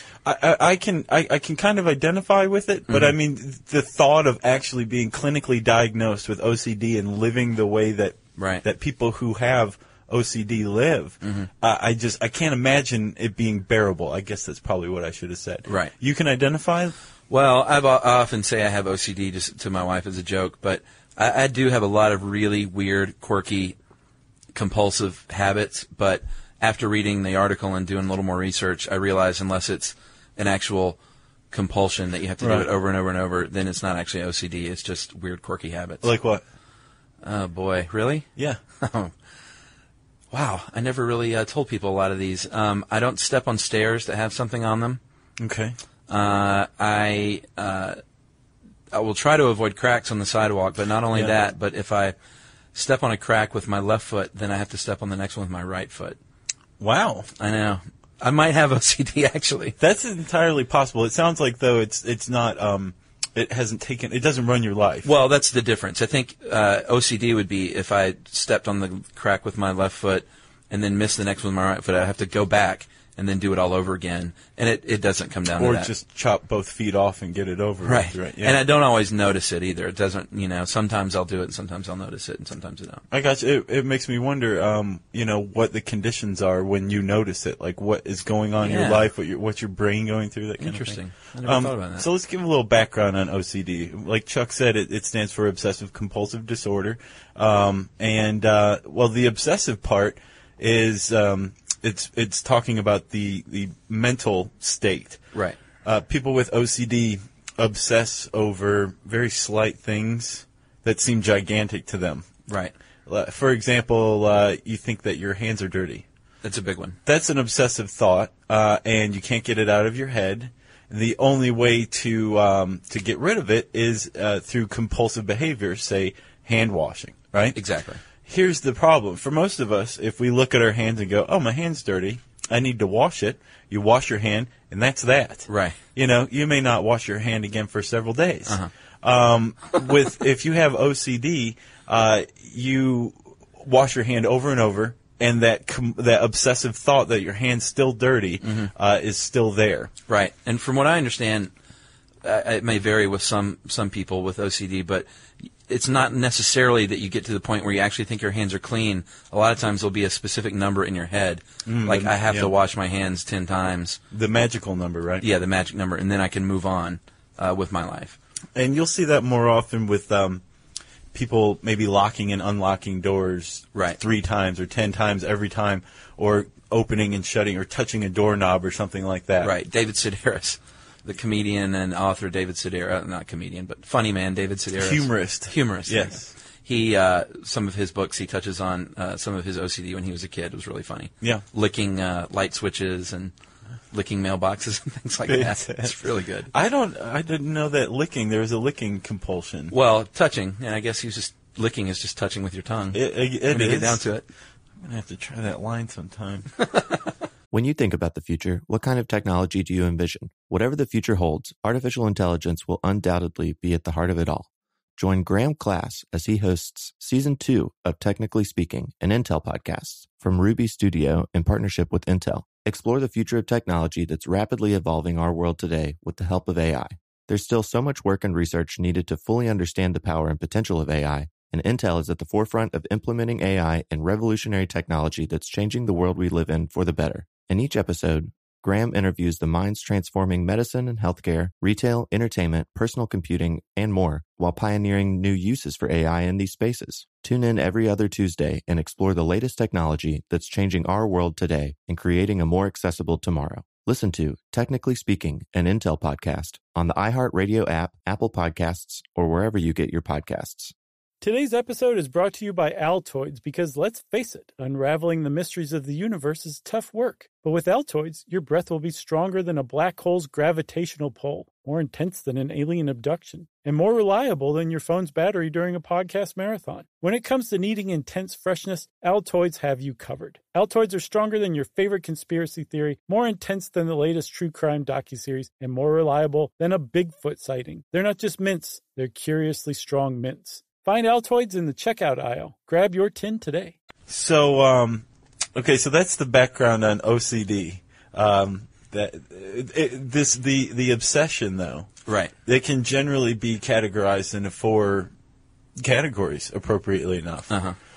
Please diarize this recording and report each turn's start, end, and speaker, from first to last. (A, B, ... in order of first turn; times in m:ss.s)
0:00.2-0:17.0 A
0:02.9-0:03.2 B
0:08.4-0:08.6 B
0:11.2-0:11.5 B
0:15.7-0:15.9 B
0:17.3-0:23.8 B
0:24.5-0:31.0 B
0:31.5-0:36.1 B
0:32.4-0:32.7 A
0:36.0-0:36.4 A
0:37.2-0:38.3 B
0:38.8-0:39.1 B
0:40.3-0:45.0 B
0:45.4-0:45.8 A
0:46.1-0:48.0 B
0:48.9-0:52.2 B
0:51.1-0:51.4 A
0:52.7-0:56.2 B
0:56.8-0:57.3 A
0:57.4-0:59.8 B
0:59.8-1:05.1 A
1:05.0-1:15.9 B
1:15.6-1:18.6 A
1:17.8-1:23.0 B
1:23.1-1:45.2 A
1:28.6-1:29.1 B
1:30.6-1:32.1 B
1:45.3-1:45.6 B
1:45.8-1:52.3 A
1:52.5-1:52.8 B
1:53.1-1:56.0 A
1:56.4-1:57.0 B
1:57.0-2:07.6 A
2:07.5-2:08.0 B
2:08.3-2:29.9 A
2:15.5-2:15.8 B
2:28.4-2:28.7 B
2:30.1-2:31.5 B
2:32.2-2:35.1 B
2:35.7-2:44.0 B
2:41.6-2:42.5 A
2:44.1-2:45.3 A
2:45.2-2:48.2 B
2:48.6-2:50.4 A
2:51.1-2:59.5 A
2:53.7-2:54.0 B
2:59.4-3:13.3 B
3:04.7-3:06.3 A
3:13.9-3:16.5 B
3:15.2-3:16.0 A
3:16.5-3:19.8 A
3:19.7-3:24.3 B
3:22.9-3:24.1 A
3:24.8-3:26.5 A
3:27.5-4:20.7 C
4:21.2-4:53.8 D
4:54.1-4:55.0 A
4:55.6-5:01.9 A
5:02.1-5:02.3 B
5:02.4-5:05.1 A
5:05.8-5:07.5 A
5:07.5-5:07.8 B